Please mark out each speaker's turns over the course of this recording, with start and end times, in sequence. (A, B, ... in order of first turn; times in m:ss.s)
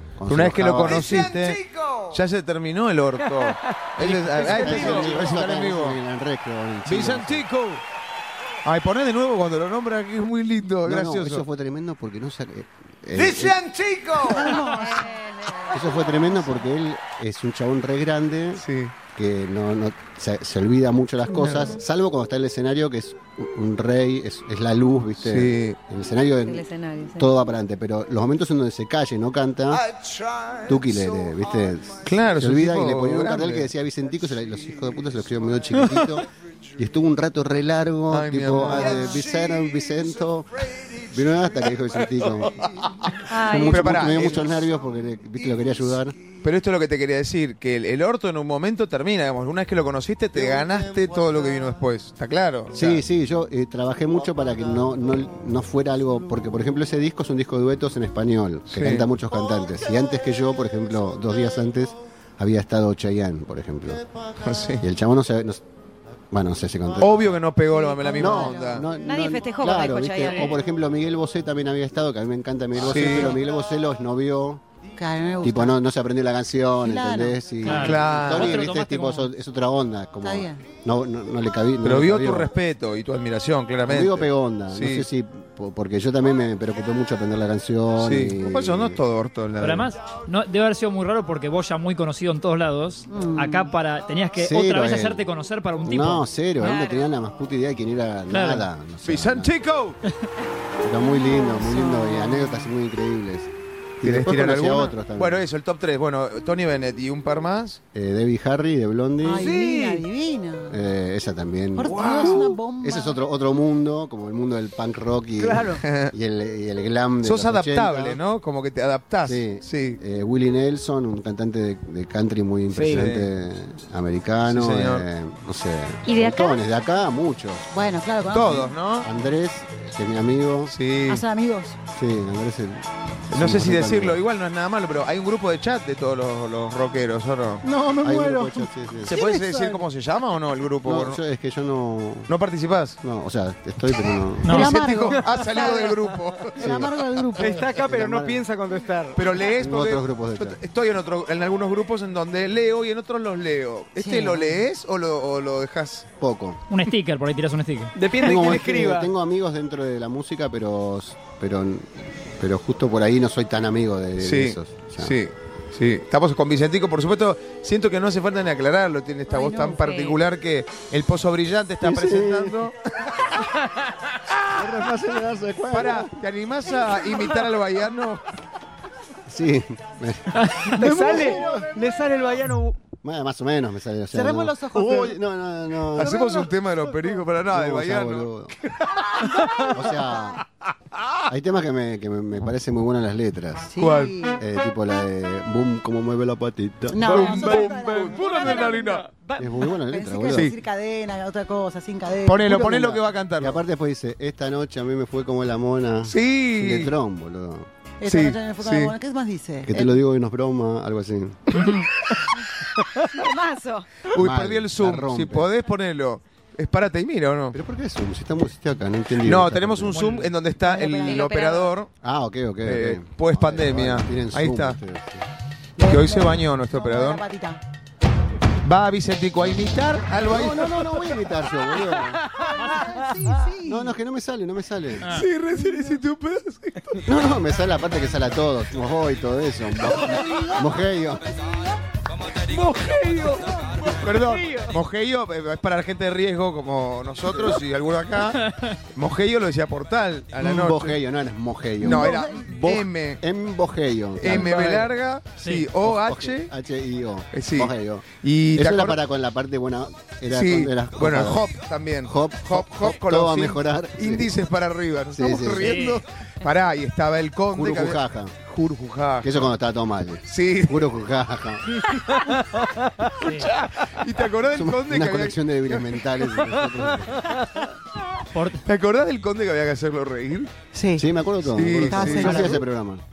0:00.2-0:01.4 A
0:00.3-0:06.0 B
0:03.4-0:03.8 C
0:04.0-0:07.5 A
0:04.3-0:05.2 C
0:06.9-0:07.8 B
0:08.6-0:11.4 B
0:10.8-0:13.6 A
0:13.4-0:14.1 B
0:14.2-0:15.1 D
0:14.5-0:16.3 E
0:15.7-0:26.6 A
0:18.6-0:18.9 B
0:21.4-0:21.8 B
0:25.2-0:25.8 B
0:26.4-0:27.3 E
0:27.2-0:30.0 A
0:30.6-0:42.8 A
0:32.0-0:33.7 B
0:38.1-0:39.2 B
0:42.6-0:44.5 B
0:43.3-0:44.2 E
0:43.3-0:46.2 A
0:46.4-0:53.0 B
0:52.7-1:04.0 A
0:58.7-0:59.1 B
1:04.4-1:04.8 B
1:04.8-1:05.6 A
1:06.3-1:07.2 A
1:07.0-1:08.9 B
1:07.7-1:08.8 D
1:08.1-1:14.6 A
1:09.0-1:10.6 E
1:12.8-1:13.4 B
1:15.0-1:15.8 D
1:15.4-1:22.5 A
1:16.8-1:17.4 D
1:17.6-1:19.3 F
1:17.7-1:18.6 B
1:20.2-1:20.6 D
1:21.8-1:25.1 B
1:23.8-1:29.0 A
1:28.0-1:29.9 B
1:29.6-1:36.2 F
1:33.1-1:33.7 D
1:34.4-1:35.2 A
1:35.8-1:39.5 A
1:36.6-1:37.1 E
1:38.3-1:38.7 F
1:39.0-1:40.0 B
1:40.8-1:45.4 A
1:41.0-1:42.7 D
1:44.0-1:47.8 B
1:47.9-1:49.5 A
1:49.2-1:50.8 D
1:49.4-1:50.0 C
1:50.7-1:58.2 A
1:51.8-1:53.2 D
1:51.9-1:52.6 B
1:55.4-1:55.8 C
1:55.8-1:56.1 B
1:57.2-2:00.0 B
1:59.2-2:07.7 A
2:02.7-2:03.1 C
2:02.9-2:03.3 B
2:04.5-2:05.1 B
2:06.1-2:06.6 E
2:07.7-2:08.7 D
2:08.3-2:09.1 B
2:09.0-2:10.7 A
2:10.7-2:11.2 B
2:11.1-2:11.8 D
2:11.9-2:14.2 A
2:13.3-2:17.6 B
2:17.6-2:19.8 D
2:18.0-2:19.2 A
2:19.0-2:21.2 B
2:20.8-2:22.3 A
2:22.3-2:23.0 B
2:23.0-2:24.7 A
2:24.4-2:24.8 F
2:24.5-2:25.9 D
2:24.5-2:26.9 B
2:26.6-2:27.7 D
2:26.6-2:26.9 A
2:27.4-2:29.2 C
2:27.7-2:28.4 A
2:29.2-2:36.1 B
2:29.6-2:30.6 A
2:34.0-2:34.6 D
2:36.2-2:36.6 A
2:36.7-2:38.0 F
2:37.9-2:39.1 C
2:38.2-2:45.2 A
2:44.2-2:53.4 B
2:49.3-2:49.8 D
2:49.6-2:50.2 E
2:51.8-2:52.6 A
2:54.3-2:54.9 B
2:54.5-2:56.2 A
2:55.7-2:58.2 B
2:59.3-3:01.2 A
3:00.6-3:02.8 C
3:00.9-3:01.6 D
3:03.0-3:06.3 A
3:04.1-3:05.2 D
3:05.9-3:09.0 B
3:06.0-3:06.5 D
3:07.5-3:08.6 A
3:09.1-3:10.4 D
3:09.7-3:10.4 A
3:11.3-3:13.7 A
3:13.7-3:14.4 D
3:13.8-3:14.1 B
3:14.4-3:17.3 A
3:16.9-3:23.0 D
3:17.0-3:19.0 B
3:17.1-3:19.0 C
3:19.4-3:20.5 A
3:22.3-3:23.6 B
3:23.4-3:27.7 A
3:26.1-3:26.9 B
3:28.0-3:30.0 D
3:28.1-3:28.9 B
3:29.7-3:31.7 A
3:33.1-3:33.9 E
3:34.1-3:37.6 B
3:34.1-3:35.5 A
3:37.5-3:40.2 A
3:39.2-3:41.9 B
3:40.6-3:41.2 D
3:41.0-3:41.7 E
3:42.0-3:45.3 A
3:42.6-3:44.8 B
3:45.8-3:47.6 D
3:45.8-3:47.2 B
3:48.6-3:51.3 B
3:50.2-3:52.2 A
3:52.5-3:54.0 D
3:53.6-3:55.1 A
3:55.1-3:57.1 B
3:55.6-3:56.0 D
3:57.0-4:01.2 A
3:59.9-4:00.6 D
3:59.9-4:00.2 B
4:01.4-4:01.7 D
4:02.4-4:04.7 C
4:03.5-4:03.8 D
4:03.9-4:11.0 B
4:08.4-4:08.7 F
4:10.4-4:14.9 A
4:11.8-4:13.2 B
4:14.2-4:16.5 B
4:15.8-4:21.4 A
4:17.3-4:19.0 B
4:20.3-4:29.5 B
4:22.1-4:24.3 A
4:25.1-4:25.8 A
4:25.6-4:26.0 F
4:27.5-4:28.4 A
4:29.2-4:31.8 A
4:30.3-4:31.0 B
4:31.7-4:32.5 B
4:32.4-4:33.1 C
4:33.2-4:36.0 B
4:33.2-4:33.5 F
4:34.4-4:37.3 A
4:36.6-4:37.4 C
4:38.3-4:38.6 F
4:38.6-4:40.5 B
4:40.7-4:41.1 D
4:41.0-4:43.0 A
4:41.5-4:42.5 B
4:41.9-4:42.6 D